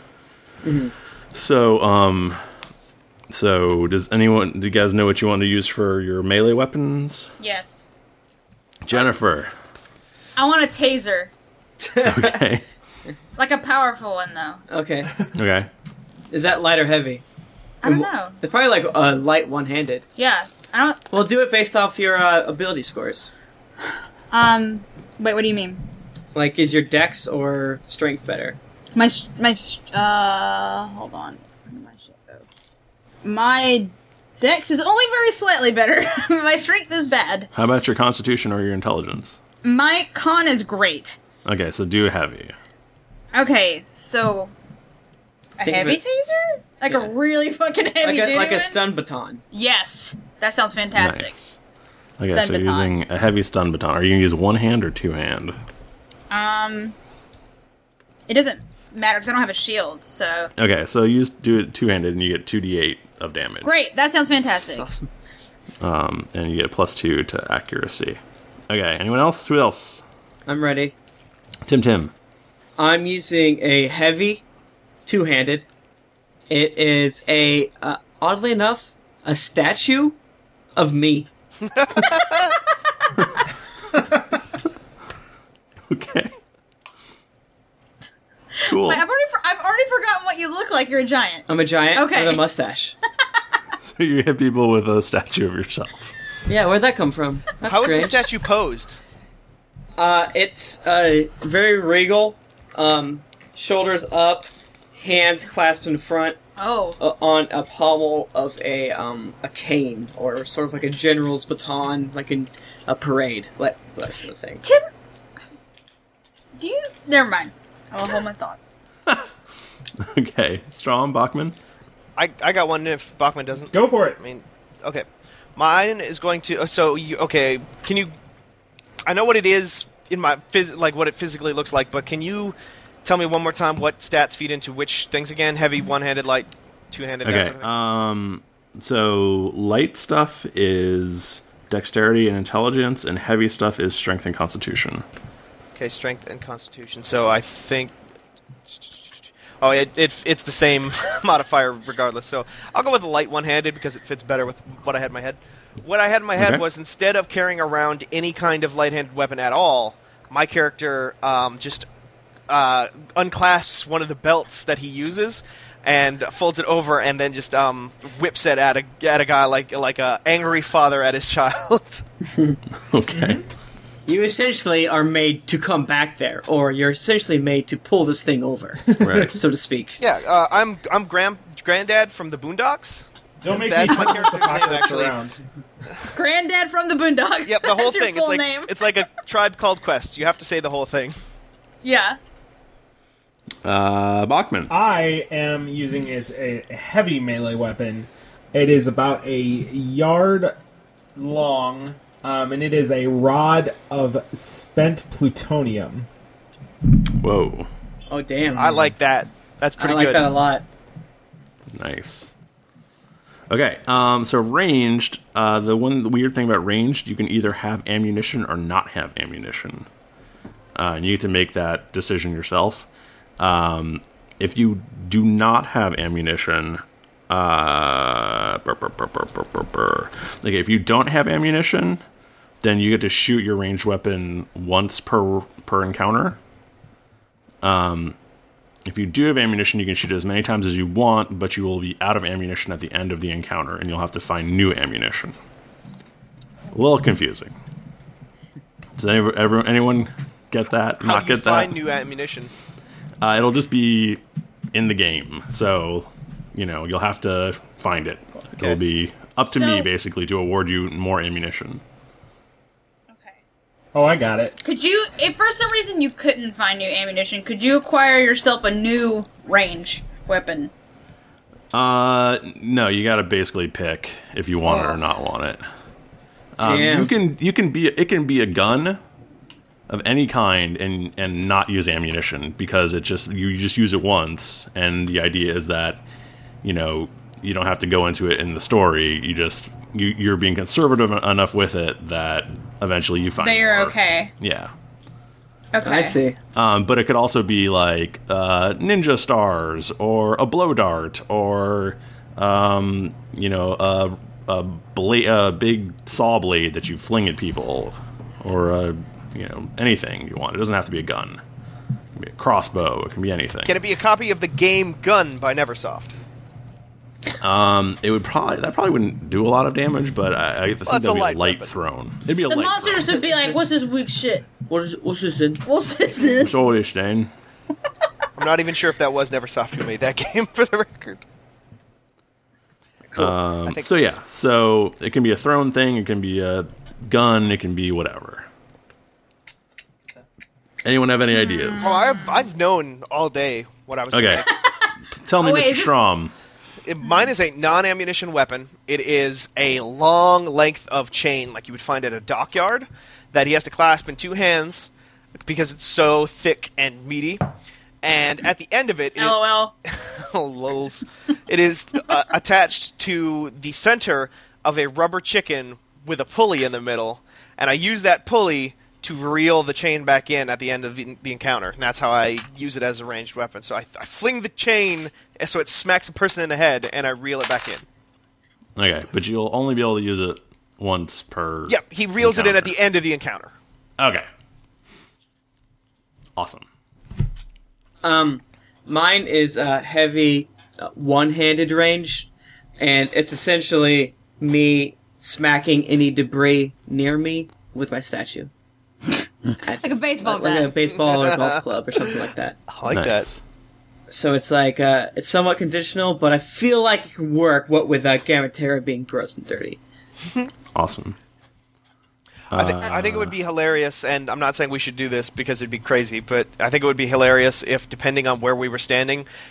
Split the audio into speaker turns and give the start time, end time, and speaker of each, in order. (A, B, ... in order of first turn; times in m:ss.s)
0:00.6-0:00.9 A
0:01.3-0:02.4 B
0:03.3-0:07.3 B
0:07.4-0:07.9 C
0:08.8-0:09.5 B
0:10.4-0:11.3 C
0:11.8-0:12.4 A
0:12.0-0:12.7 B
0:13.4-0:14.6 C
0:14.7-0:15.3 A
0:15.3-0:15.7 B
0:16.3-0:17.2 A
0:17.8-0:18.4 C
0:17.8-0:20.0 A
0:20.2-0:21.1 C
0:21.1-0:23.3 A
0:24.3-0:25.8 C
0:26.4-0:28.6 A
0:29.0-0:32.4 C
0:33.2-0:37.5 C
0:37.6-0:39.4 B
0:39.6-0:41.2 C
0:41.4-0:42.5 B
0:43.3-0:44.5 C
0:45.6-0:48.8 C
0:45.6-0:46.0 A
0:48.0-0:49.4 A
0:49.5-0:51.3 C
0:51.0-0:51.6 B
0:52.2-0:55.6 B
0:52.2-0:52.9 C
0:56.3-0:57.0 C
0:58.3-1:00.5 C
1:00.6-1:03.7 B
1:03.6-1:04.9 C
1:04.7-1:05.1 A
1:05.8-1:10.0 B
1:10.4-1:10.9 A
1:11.7-1:12.1 B
1:12.8-1:14.4 A
1:15.0-1:15.7 A
1:16.5-1:20.2 A
1:20.8-1:21.3 A
1:25.9-1:26.3 B
1:28.6-1:32.4 C
1:28.7-1:29.0 B
1:31.5-1:33.0 A
1:33.8-1:36.1 B
1:36.5-1:38.3 A
1:37.6-1:39.0 D
1:40.0-1:46.4 A
1:46.6-1:47.0 C
1:47.0-1:54.6 A
1:56.6-1:58.6 C
2:00.0-2:01.6 B
2:02.2-2:08.1 D
2:03.7-2:04.2 E
2:09.1-2:17.7 D
2:17.2-2:25.0 B
2:25.8-2:28.0 D
2:28.7-2:41.9 D
2:36.4-2:36.6 B
2:42.5-2:52.0 D
2:52.8-2:53.4 B
2:53.1-2:53.4 E
2:54.1-3:00.0 A
2:58.9-2:59.4 E
2:59.0-2:59.4 B
3:00.0-3:05.2 D
3:03.4-3:05.4 E
3:06.1-3:08.9 C
3:07.4-3:11.2 D
3:11.8-3:12.2 C
3:13.6-3:14.7 B
3:14.7-3:20.6 E
3:21.2-3:26.1 E
3:27.1-3:27.7 B
3:28.1-3:29.0 A
3:28.6-3:30.3 D
3:29.8-3:30.6 A
3:31.7-3:32.3 B
3:33.5-3:39.9 B
3:40.8-3:42.9 B
3:43.4-3:52.0 B
3:52.6-3:56.4 B
3:57.6-3:58.2 B
3:58.9-4:05.4 B
4:06.7-4:07.5 B
4:09.0-4:11.8 B
4:11.0-4:12.5 D
4:13.2-4:21.8 B
4:19.4-4:19.9 C
4:23.1-4:23.4 C
4:23.9-4:24.6 E
4:24.6-4:30.7 C
4:31.7-4:35.6 B
4:34.6-4:35.0 C
4:36.6-4:39.0 B
4:36.6-4:37.1 A
4:39.9-4:46.0 B
4:46.6-4:54.7 B
4:53.4-4:54.3 C
4:55.7-4:56.2 C
4:55.8-4:56.4 A
4:56.6-5:11.4 B
5:12.1-5:13.8 B
5:13.7-5:16.1 D
5:17.4-5:23.2 B
5:20.9-5:21.7 D
5:22.5-5:24.4 C
5:24.7-5:25.6 A
5:25.6-5:26.5 C
5:26.4-5:27.3 B
5:28.4-5:31.2 D
5:33.2-5:38.5 B
5:33.6-5:34.1 D
5:40.8-5:42.0 B
5:41.4-5:42.3 C
5:41.8-5:44.5 D
5:44.1-5:44.4 B
5:44.4-5:46.0 C
5:45.2-5:46.3 B
5:46.8-5:57.4 D
5:58.0-6:17.8 D
5:59.2-5:59.7 C
6:18.8-6:22.8 B
6:21.7-6:23.5 D
6:24.0-6:24.3 B
6:26.4-6:26.7 B
6:28.0-6:38.5 A
6:39.6-6:42.6 A
6:39.8-6:40.8 C
6:41.1-6:41.5 D
6:42.7-6:43.3 D
6:42.9-6:43.4 B
6:44.1-6:49.8 A
6:50.8-6:51.2 B
6:52.5-6:59.3 D
6:52.5-6:53.4 B